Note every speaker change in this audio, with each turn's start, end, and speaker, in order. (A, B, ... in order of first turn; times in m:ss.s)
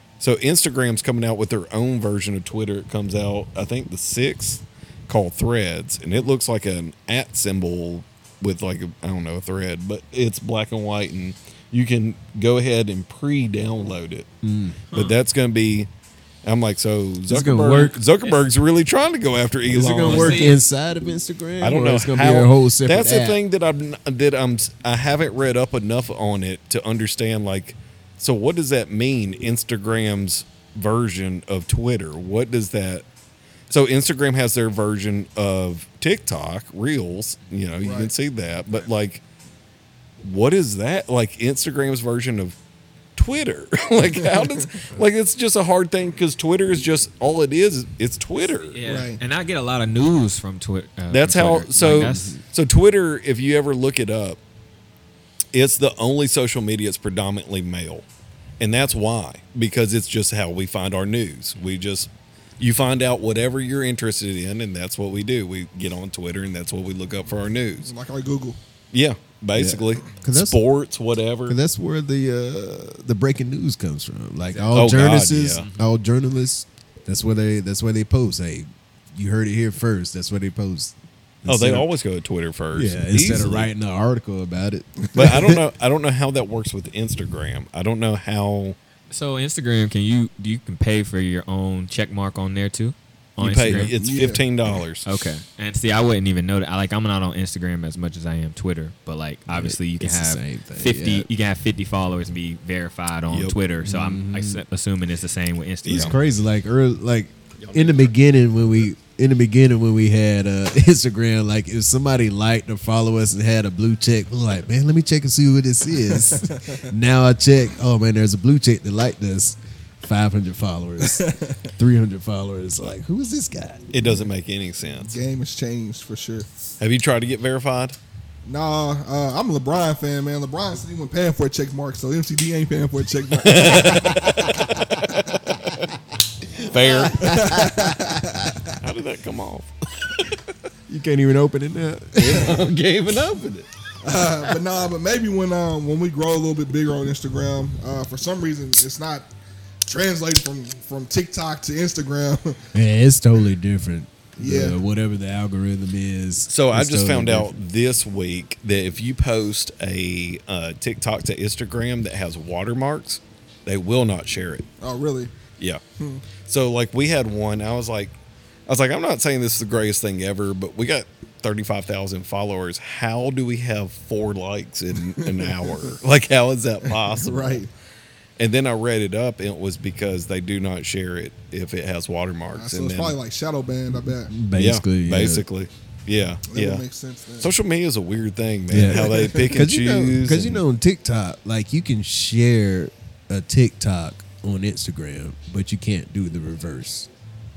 0:00.2-0:14.3 A
0:14.4-0:14.8 B
0:14.9-0:15.2 C
0:14.9-0:15.9 A
0:16.4-0:20.5 A
0:17.3-0:18.0 B
0:19.7-0:23.4 B
0:20.0-0:20.6 C
0:21.6-0:33.0 A
0:33.7-0:39.2 A
0:37.8-0:38.1 D
0:40.2-0:42.6 A
0:43.2-0:48.8 A
0:44.2-0:44.7 D
0:48.7-0:52.4 C
0:48.8-0:49.2 D
0:51.1-0:54.4 A
0:52.0-0:52.4 B
0:55.5-0:58.1 A
0:58.6-1:07.9 A
1:07.8-1:08.6 D
1:08.9-1:11.6 A
1:09.5-1:10.6 B
1:11.5-1:21.9 B
1:14.5-1:14.8 D
1:14.7-1:15.7 A
1:15.5-1:15.9 C
1:21.5-1:23.7 A
1:22.7-1:25.6 B
1:25.1-1:28.8 A
1:29.1-1:33.9 C
1:33.4-1:35.1 A
1:33.9-1:34.4 D
1:35.0-1:46.2 C
1:39.5-1:41.3 B
1:43.3-1:43.6 A
1:43.8-1:44.6 B
1:45.8-1:46.2 A
1:45.9-2:03.9 B
1:47.6-1:48.2 A
1:56.0-1:56.9 D
2:01.0-2:01.6 D
2:03.9-2:05.2 A
2:04.0-2:04.3 D
2:05.0-2:06.5 D
2:06.8-2:08.0 A
2:08.4-2:14.6 D
2:13.4-2:15.9 A
2:16.5-2:17.5 A
2:16.8-2:18.8 D
2:17.2-2:18.3 B
2:18.8-2:20.3 A
2:20.9-2:22.6 B
2:22.2-2:23.7 A
2:24.0-2:29.3 D
2:29.9-2:32.6 D
2:32.7-2:37.6 B
2:34.4-2:34.8 D
2:36.5-2:44.7 A
2:44.8-2:45.3 D
2:46.0-2:46.2 D
2:46.4-2:48.2 A
2:48.7-2:57.6 A
2:55.2-2:55.9 D
2:56.9-2:57.7 D
2:58.4-3:03.2 A
3:02.5-3:04.3 D
3:04.3-3:05.4 B
3:04.6-3:06.8 A
3:06.5-3:07.5 D
3:07.4-3:10.6 A
3:08.7-3:17.1 B
3:08.9-3:09.6 D